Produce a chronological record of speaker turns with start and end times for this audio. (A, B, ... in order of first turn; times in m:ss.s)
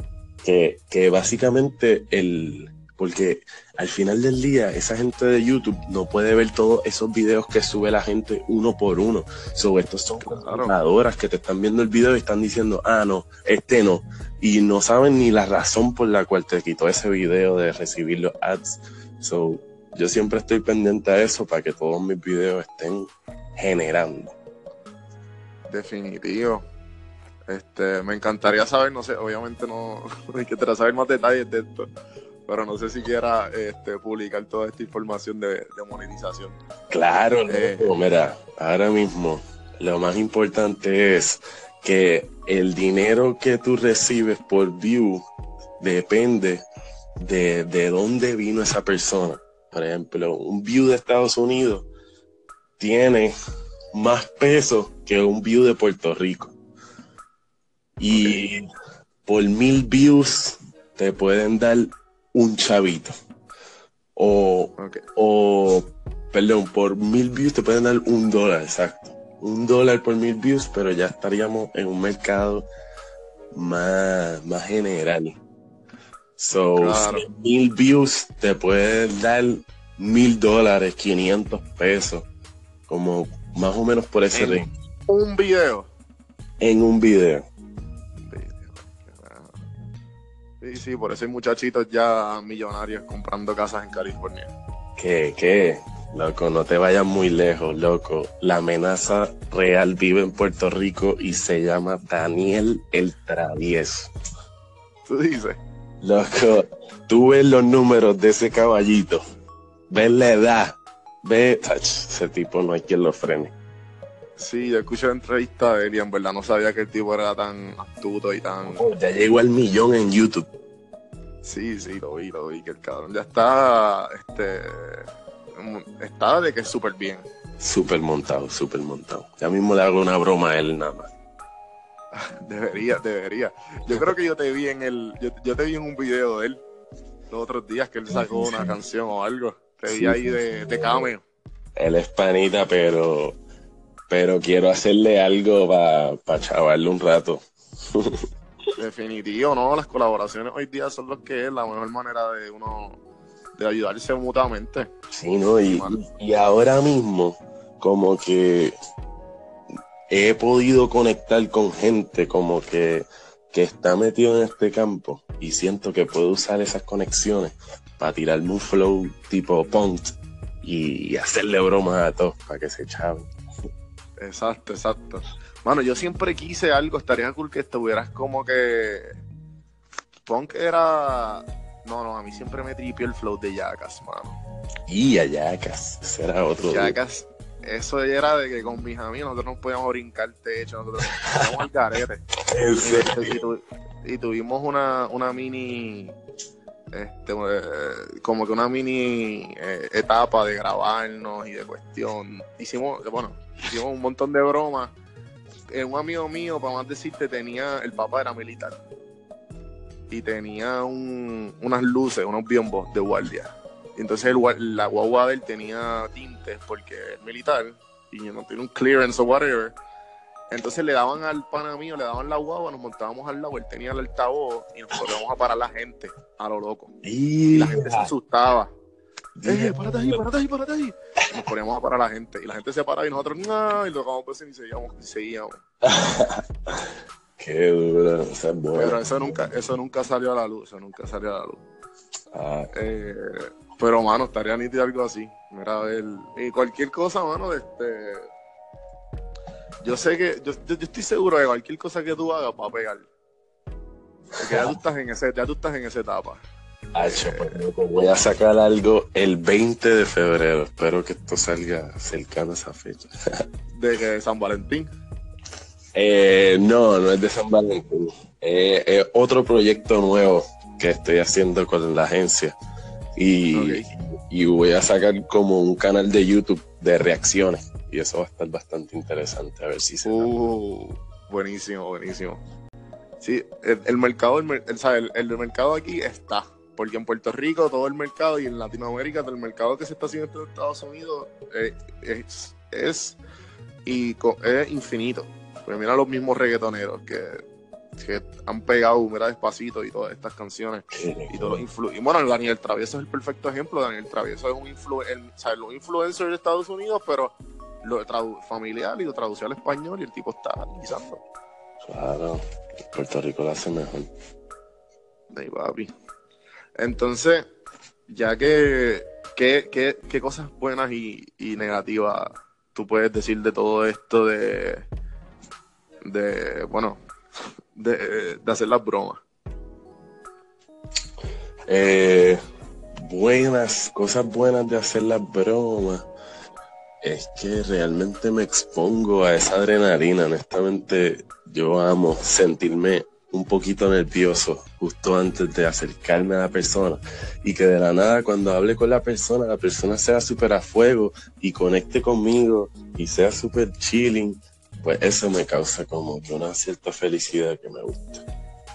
0:00.4-0:24.3 A
0:10.2-0:10.7 B
0:25.7-0:26.6 B
0:27.5-0:31.9 B
0:32.5-0:36.6 B
0:36.9-0:45.2 A
0:37.5-0:37.9 B
0:45.8-0:46.6 A
0:47.2-0:51.8 A
0:52.8-0:53.3 A
0:53.9-0:56.5 A
0:58.0-0:58.7 A
0:58.1-0:58.5 B
0:59.2-1:03.1 A
1:04.2-1:12.7 A
1:04.8-1:05.0 B
1:13.5-1:15.4 A
1:16.4-1:22.3 A
1:16.8-1:17.2 B
1:22.9-1:24.7 A
1:24.3-1:25.9 B
1:26.6-1:27.4 A
1:28.2-1:29.6 B
1:30.6-1:34.5 B
1:35.0-1:44.1 A
1:45.0-1:45.6 B
1:46.0-1:49.2 A
1:49.9-1:53.5 A
1:54.4-1:58.8 B
1:58.6-2:00.5 A
2:01.4-2:07.2 B
2:07.6-2:11.1 A
2:12.1-2:16.6 B
2:17.3-2:21.2 B
2:18.1-2:18.7 A
2:19.9-2:21.1 A
2:21.8-2:23.4 A
2:24.1-2:28.2 A
2:28.8-2:33.0 B
2:33.5-2:34.9 B
2:35.1-2:38.7 A
2:35.6-2:36.0 B
2:40.1-2:53.3 A
2:54.2-2:59.1 B
3:00.2-3:04.4 B
3:04.9-3:07.0 A
3:06.7-3:12.2 B
3:12.5-3:13.4 A
3:12.8-3:16.2 B
3:16.9-3:24.9 B
3:25.7-3:28.8 B
3:30.1-3:39.8 B
3:40.5-3:46.9 B
3:47.0-3:48.1 A
3:47.5-3:48.7 B
3:49.4-3:50.2 A
3:49.4-3:55.6 B
3:55.8-3:59.5 A
3:58.7-4:01.6 B
4:02.3-4:02.7 A
4:02.7-4:08.3 B
4:09.8-4:13.1 B
4:14.4-4:16.4 B
4:14.5-4:14.8 A
4:16.9-4:23.1 A
4:17.0-4:17.6 B
4:23.7-4:24.9 B
4:25.9-4:32.6 A
4:33.1-4:40.3 A
4:33.5-4:33.9 B
4:40.0-4:42.4 B
4:43.2-4:53.2 B
4:53.8-4:57.4 B
4:58.0-5:11.2 B
5:00.9-5:01.6 A
5:11.8-5:14.1 A
5:15.3-5:15.9 B
5:16.8-5:17.4 B
5:18.1-5:24.9 B
5:26.0-5:27.0 B
5:27.7-5:29.2 B
5:31.7-5:32.4 A
5:33.0-5:36.1 A
5:37.0-5:58.2 A